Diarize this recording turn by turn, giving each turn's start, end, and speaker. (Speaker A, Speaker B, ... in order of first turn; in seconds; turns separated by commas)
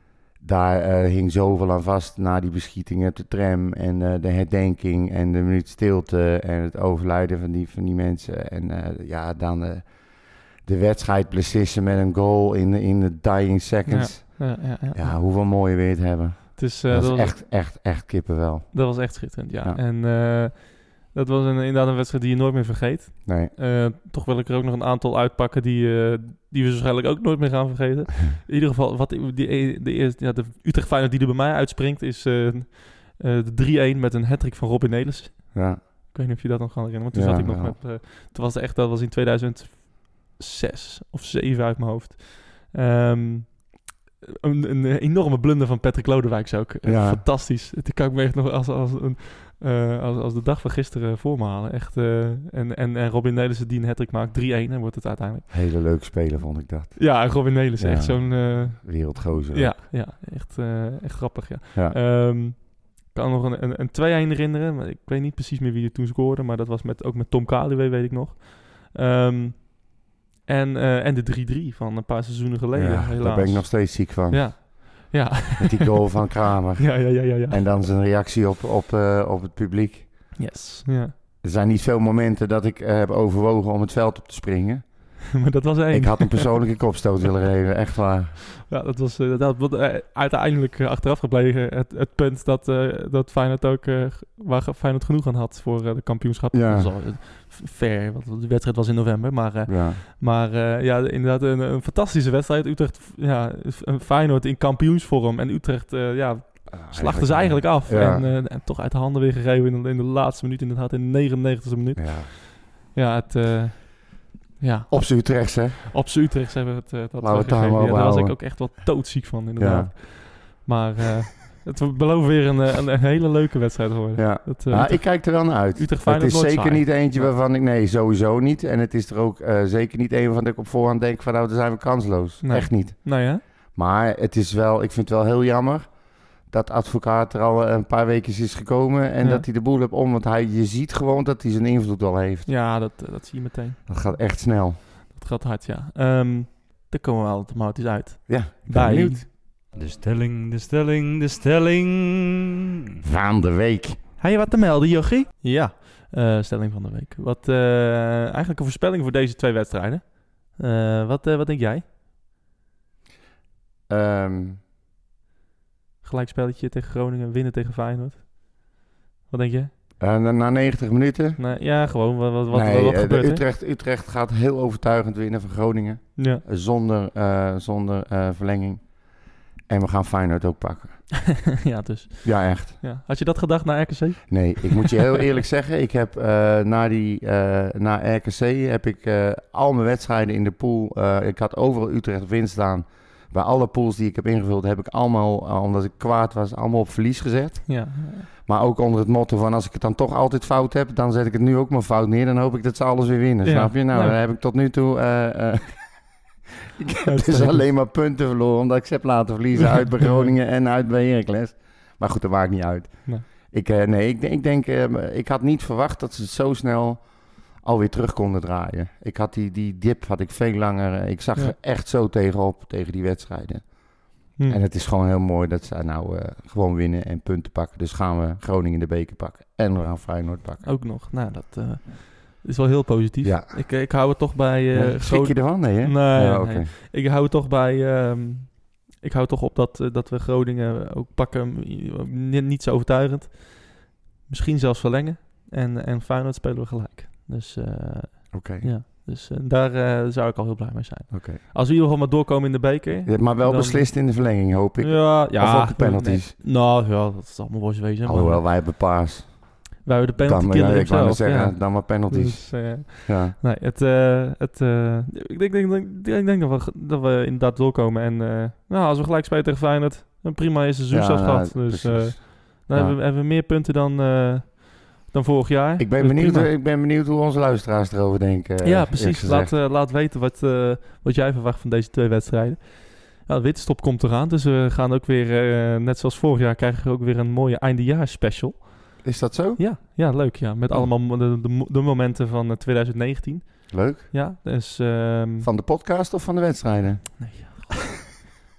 Speaker A: 0.4-19.8, Speaker B: 13.9-15.2, Speaker B: 16.6-17.4, Speaker B: 18.7-43.9, Speaker A: 23.2-23.5, Speaker A: 35.5-35.8, Speaker A: 37.1-37.8, Speaker B: 44.4-55.5, Speaker A: 46.9-47.2, Speaker A: 55.5-59.8, Speaker B: 57.0-76.2, Speaker A: 72.7-75.1, Speaker A: 75.6-80.4, Speaker B: 76.8-77.8, Speaker B: 80.4-81.2, Speaker A: 81.4-88.4, Speaker B: 85.3-86.8, Speaker B: 88.7-127.3, Speaker A: 96.5-96.9, Speaker A: 99.7-100.0, Speaker A: 106.7-108.3, Speaker A: 112.0-112.3, Speaker A: 114.9-115.9, Speaker A: 117.2-118.8, Speaker A: 119.6-119.9, Speaker A: 124.2-142.5, Speaker B: 132.4-133.4, Speaker B: 139.2-139.5, Speaker B: 142.5-143.8, Speaker A: 143.9-144.8, Speaker B: 144.9-149.2, Speaker A: 148.3-149.3, Speaker C: 149.5-153.0, Speaker A: 153.0-154.0, Speaker B: 154.2-161.8, Speaker A: 163.9-164.6, Speaker B: 166.0-169.7, Speaker A: 170.0-171.4, Speaker B: 171.4-173.4, Speaker A: 172.5-181.0, Speaker B: 176.2-176.4, Speaker B: 181.6-185.0, Speaker A: 182.2-182.8, Speaker A: 184.3-230.7, Speaker B: 197.7-198.3, Speaker B: 203.4-204.2, Speaker B: 207.0-207.7, Speaker B: 230.6-258.5, Speaker A: 233.2-233.7, Speaker A: 234.7-236.7, Speaker A: 248.3-248.7, Speaker A: 251.1-251.4, Speaker A: 253.1-256.3, Speaker A: 258.1-259.7, Speaker B: 259.8-276.5, Speaker A: 260.2-263.4, Speaker A: 270.9-273.0, Speaker A: 275.8-279.6, Speaker B: 278.6-295.5, Speaker A: 289.0-290.0, Speaker A: 293.7-294.1, Speaker A: 295.4-297.6, Speaker B: 297.2-298.2